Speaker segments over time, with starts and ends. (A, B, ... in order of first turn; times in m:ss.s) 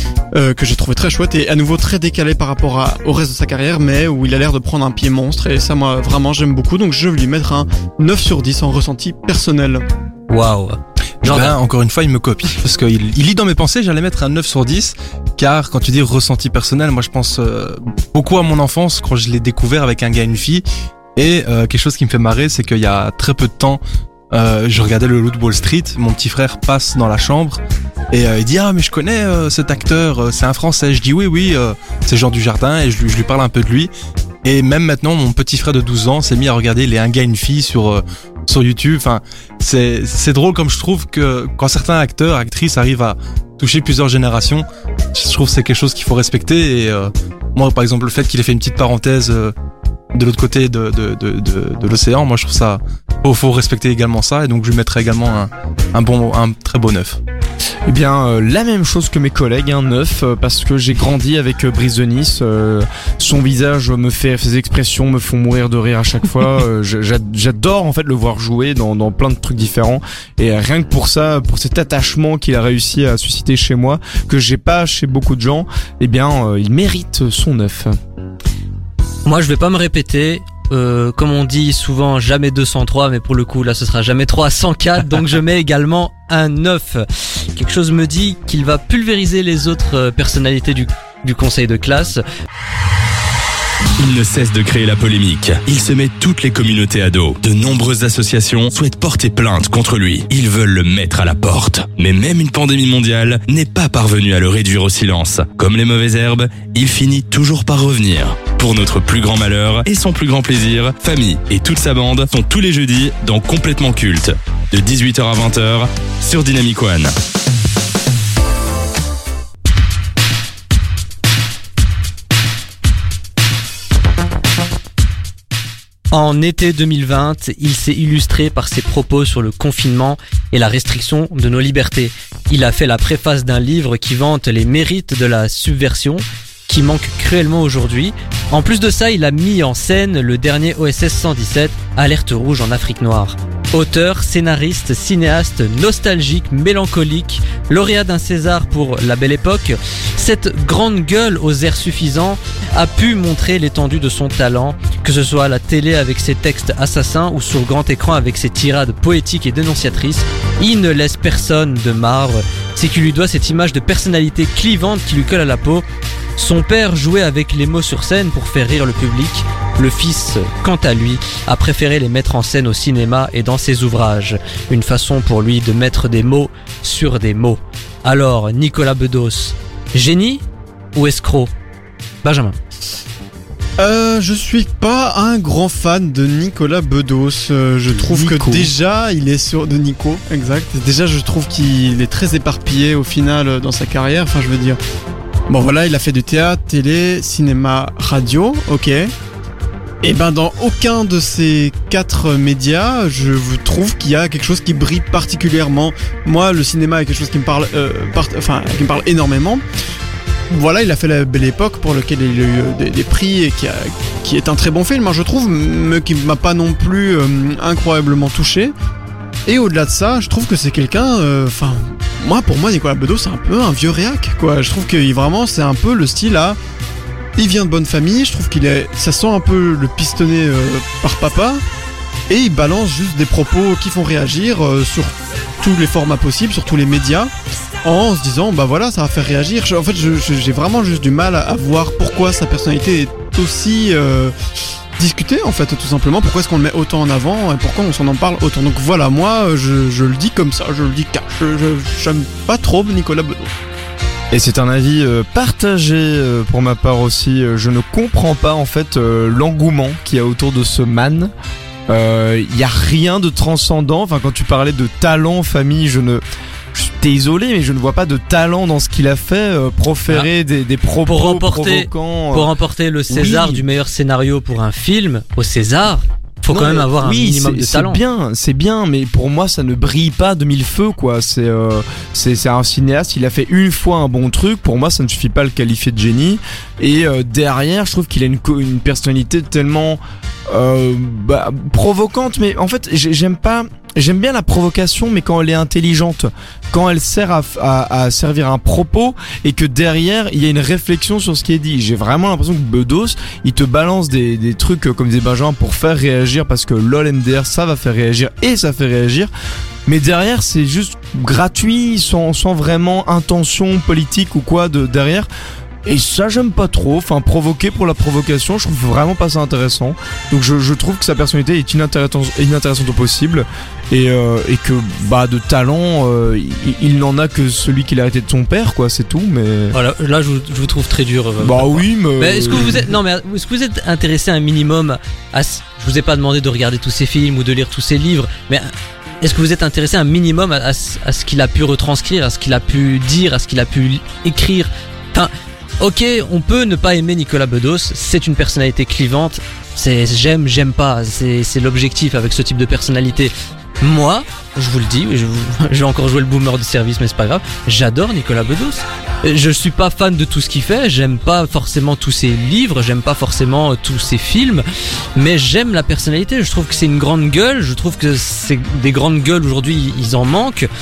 0:00.3-0:09.8 A
0:10.3-0:11.6 B
0:11.2-0:20.6 C
0:21.2-0:23.8 C
0:24.3-0:27.6 C
0:28.1-0:33.9 C
0:34.4-0:49.5 C
0:50.1-0:57.2 C
0:57.9-1:18.0 D
1:19.3-1:32.2 B
1:34.0-1:57.1 E
2:06.1-2:45.8 B
2:46.4-3:00.4 B
3:01.0-3:01.5 B
3:02.2-3:02.6 B
3:03.8-3:14.8 A
3:08.0-3:08.7 D
3:15.5-3:19.1 A
3:20.0-3:29.6 A
3:30.5-3:38.7 A
3:39.5-3:46.6 A
3:47.4-3:51.6 A
3:52.3-3:57.3 A
3:57.8-4:04.4 A
4:05.0-4:13.5 A
4:14.3-4:21.3 D
4:21.9-4:32.5 D
4:31.1-4:38.0 B
4:33.1-4:33.6 D
4:36.5-5:09.3 D
5:09.9-5:15.3 D
5:15.8-5:29.8 D
5:29.7-5:38.7 B
5:31.4-5:32.9 D
5:39.2-6:04.6 B
6:05.2-6:10.7 B